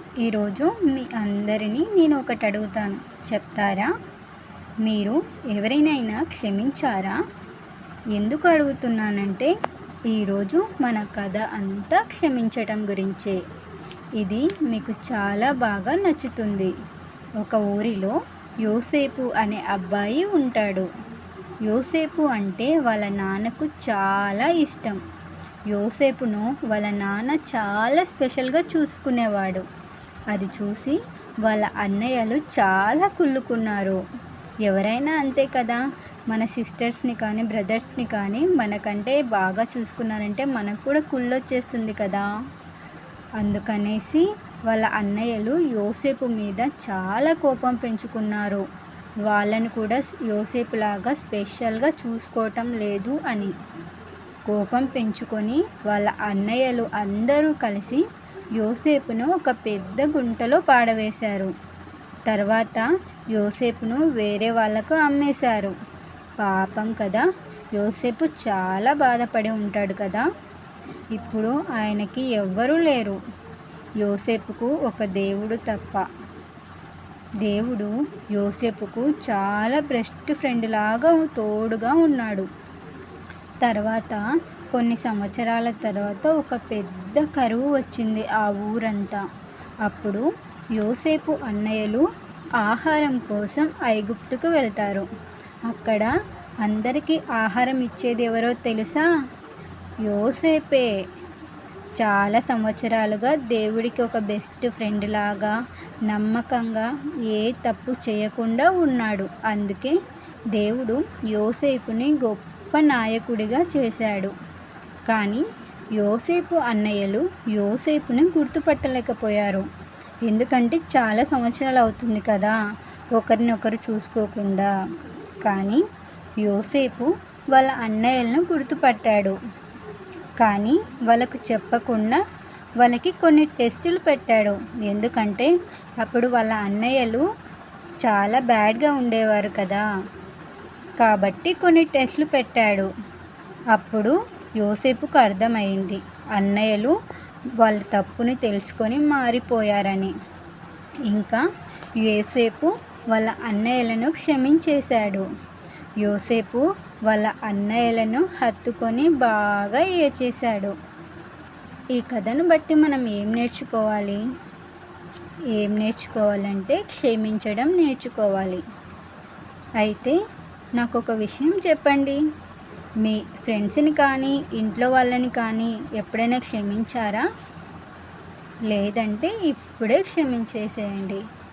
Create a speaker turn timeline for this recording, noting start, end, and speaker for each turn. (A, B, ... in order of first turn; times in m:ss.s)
0:00.2-0:03.9 A
0:04.8-0:07.2 A
0:08.1-0:09.5 A
0:10.1-0:13.4 A
0:14.2-0:16.7 A
0:17.4-0:20.9 A
0:21.6-0:25.0 A
0:25.7-0:29.6 A
0:30.3-0:34.0 A
0:34.6-0:42.3 A
0:43.4-0:48.6 A
0:49.2-0:53.5 A
0:54.4-0:58.0 A
0:58.6-1:01.5 A
1:02.3-1:05.7 A
1:06.4-1:10.3 A
1:11.1-1:13.2 A
1:14.0-1:16.1 A
1:17.4-1:22.5 A
1:23.6-1:29.2 A
1:29.8-1:30.2 A
1:30.8-1:32.0 A
1:32.6-1:35.1 A
1:35.7-1:36.1 A
1:36.6-1:39.0 A
1:40.0-1:40.9 A
1:42.0-1:45.6 A
1:46.1-1:49.9 A
1:50.5-1:54.3 A
1:55.0-1:55.4 A
1:56.0-1:59.7 A
2:00.2-2:02.6 A
2:03.1-2:04.7 A
2:05.4-2:05.8 A
2:06.4-2:09.4 A
2:10.4-2:12.2 A
2:12.8-2:17.3 A
2:18.0-2:19.8 A
2:21.0-2:22.9 A
2:23.7-2:26.9 A
2:27.6-2:30.1 A
2:31.1-2:31.4 A
2:32.0-2:35.3 A
2:36.0-2:40.7 A
2:41.9-2:44.2 A
2:45.5-2:48.6 A
2:49.8-2:50.2 A
2:50.8-2:52.2 A
2:53.0-2:57.2 A
2:58.7-3:01.2 A